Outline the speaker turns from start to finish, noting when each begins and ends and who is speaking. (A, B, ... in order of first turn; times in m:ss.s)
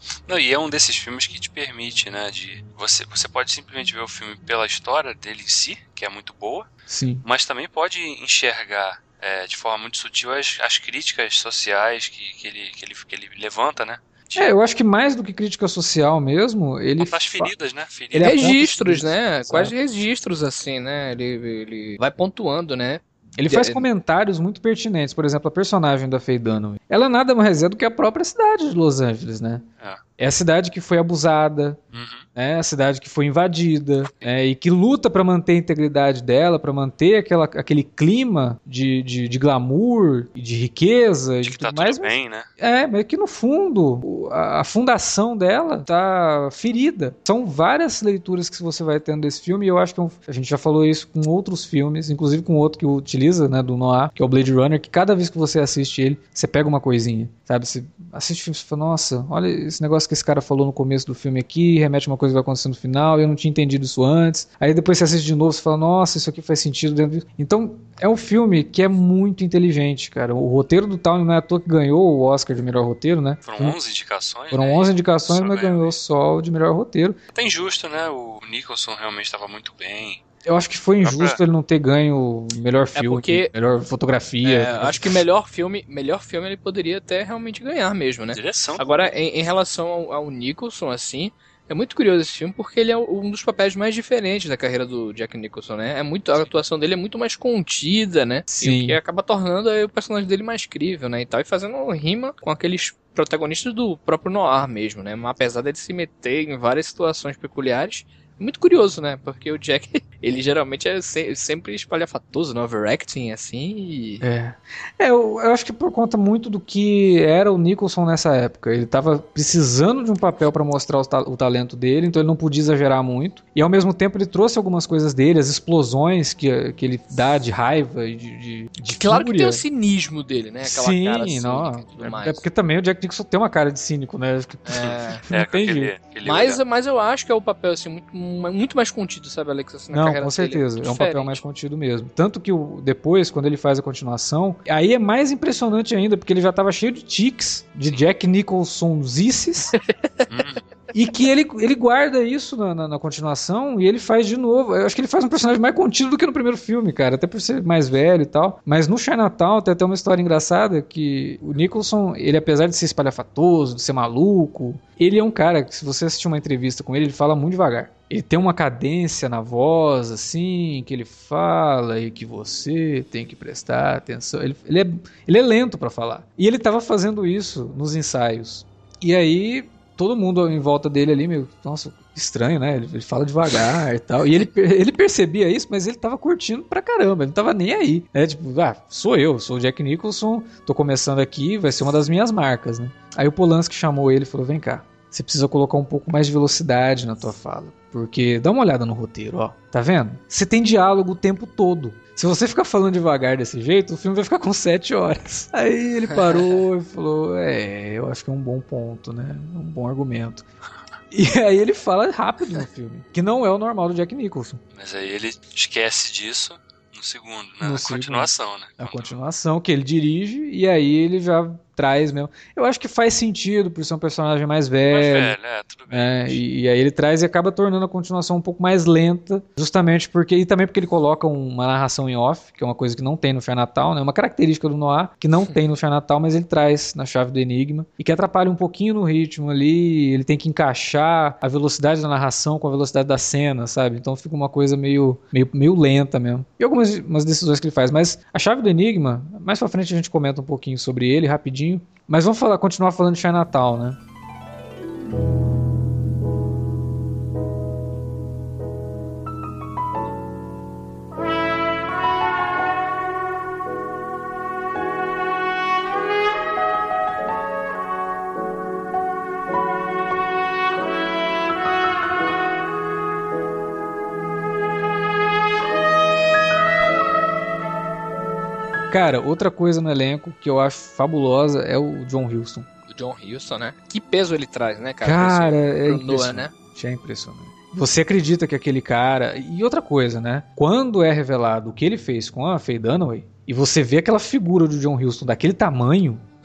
0:00.3-0:06.7 A
0:06.9-0:07.2 B
0:07.2-0:14.5 A
0:14.4-0:17.5 B
0:17.0-0:18.5 A
0:18.1-0:19.7 B
0:18.2-0:23.9 C
0:23.4-0:29.6 B
0:30.2-0:31.8 B
0:31.9-0:32.3 A
0:32.4-1:13.8 B
0:41.4-0:42.5 A
1:13.4-1:16.0 A
1:14.5-1:17.2 B
1:17.3-1:20.2 A
1:20.5-1:25.2 B
1:21.0-1:21.4 A
1:23.0-1:23.5 C
1:24.4-1:54.2 C
1:28.3-1:29.1 A
1:38.5-1:39.0 B
1:54.2-2:09.6 B
2:08.9-2:12.4 C
2:10.6-2:15.9 B
2:14.7-2:15.2 C
2:15.3-2:16.6 A
2:16.2-2:21.4 C
2:19.9-2:29.8 B
2:29.7-2:30.2 C
2:30.3-2:30.6 A
2:30.9-3:30.4 B
3:26.2-3:26.6 C
3:31.1-3:34.6 B
3:34.7-3:39.2 A
3:37.6-3:45.4 B
3:44.9-3:46.4 A
3:45.9-4:14.0 B
4:38.9-4:42.7 B
4:42.9-4:46.5 C
4:45.0-4:56.2 B